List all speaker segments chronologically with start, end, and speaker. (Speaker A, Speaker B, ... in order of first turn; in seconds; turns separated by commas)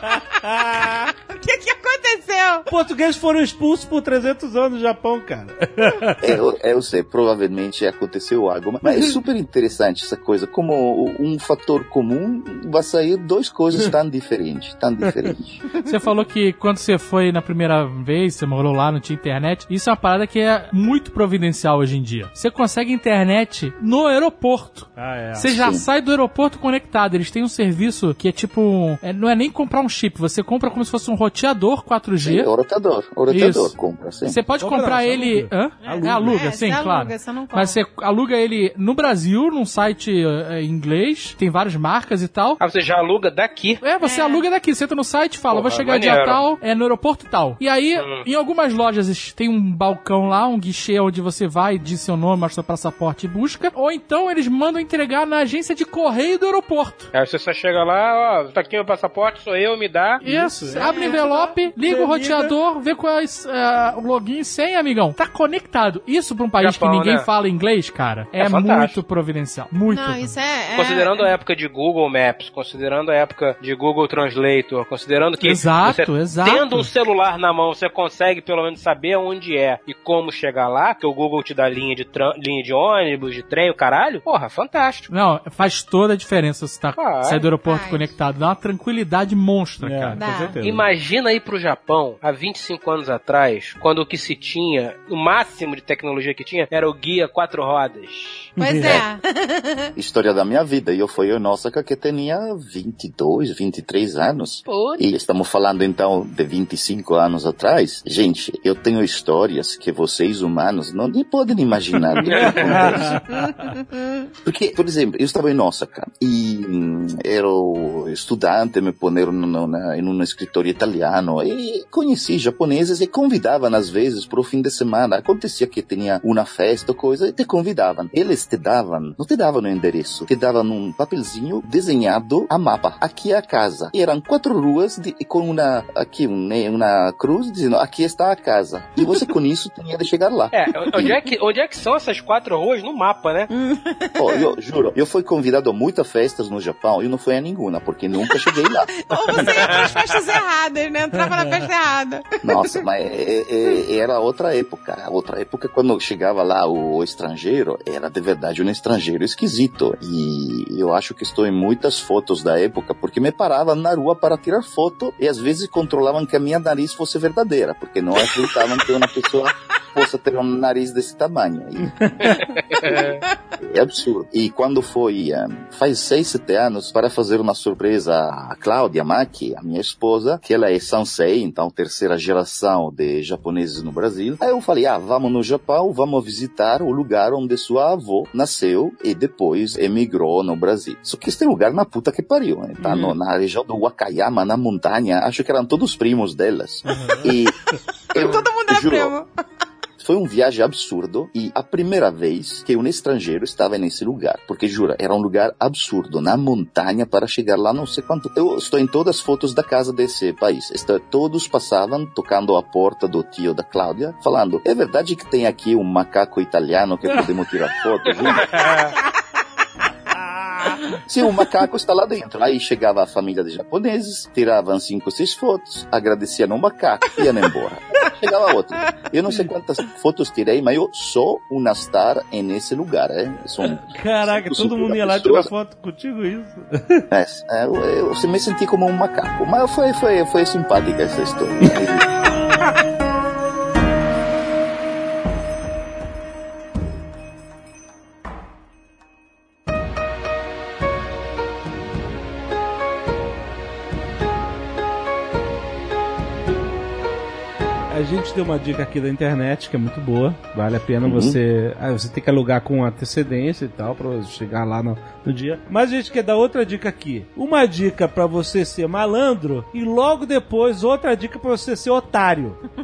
Speaker A: 0.3-1.0, Speaker B: 1.1-2.7, Speaker A: 2.7-6.4, Speaker C: 6.2-15.6, Speaker D: 15.8-32.5, Speaker A: 24.9-25.5, Speaker C: 25.5-25.8, Speaker C: 32.2-34.4, Speaker D: 33.3-33.7, Speaker D: 34.2-42.6, Speaker A: 34.6-36.4, Speaker B: 35.8-37.8, Speaker E: 42.6-43.8, Speaker D: 43.8-57.1, Speaker B: 44.0-44.4, Speaker E: 45.5-46.4, Speaker E: 48.0-48.2, Speaker E: 57.1-60.2, Speaker A: 60.2-62.5, Speaker D: 60.2-70.3, Speaker B: 60.8-61.2, Speaker E: 66.6-67.3, Speaker E: 68.4-69.0, Speaker B: 69.9-71.3, Speaker E: 70.7-85.1, Speaker D: 75.4-76.9, Speaker D: 85.1-90.2, Speaker E: 87.0-87.5, Speaker B: 87.6-88.1, Speaker A: 89.8-90.9, Speaker B: 90.2-90.5, Speaker E: 90.6-98.5, Speaker A: 98.6-99.0, Speaker B: 98.6-99.9, Speaker C: 100.0-113.2, Speaker E: 104.7-105.0, Speaker A: 112.2-113.7, Speaker E: 112.2-112.9, Speaker C: 114.4-141.2, Speaker E: 140.5-143.5, Speaker B: 143.5-144.5, Speaker C: 144.2-149.7, Speaker B: 148.3-152.8, Speaker E: 149.4-149.9, Speaker A: 151.1-151.7, Speaker C: 152.4-172.3, Speaker E: 172.2-173.2, Speaker C: 173.6-197.5, Speaker A: 192.8-193.1, Speaker A: 196.8-197.3, Speaker C: 198.1-199.1, Speaker B: 198.1-199.3, Speaker C: 200.0-218.7, Speaker E: 218.2-218.9, Speaker A: 220.1-220.8, Speaker C: 221.1-235.5, Speaker A: 233.6-237.1, Speaker C: 237.1-242.1, Speaker A: 257.9-272.6, Speaker C: 261.0-261.4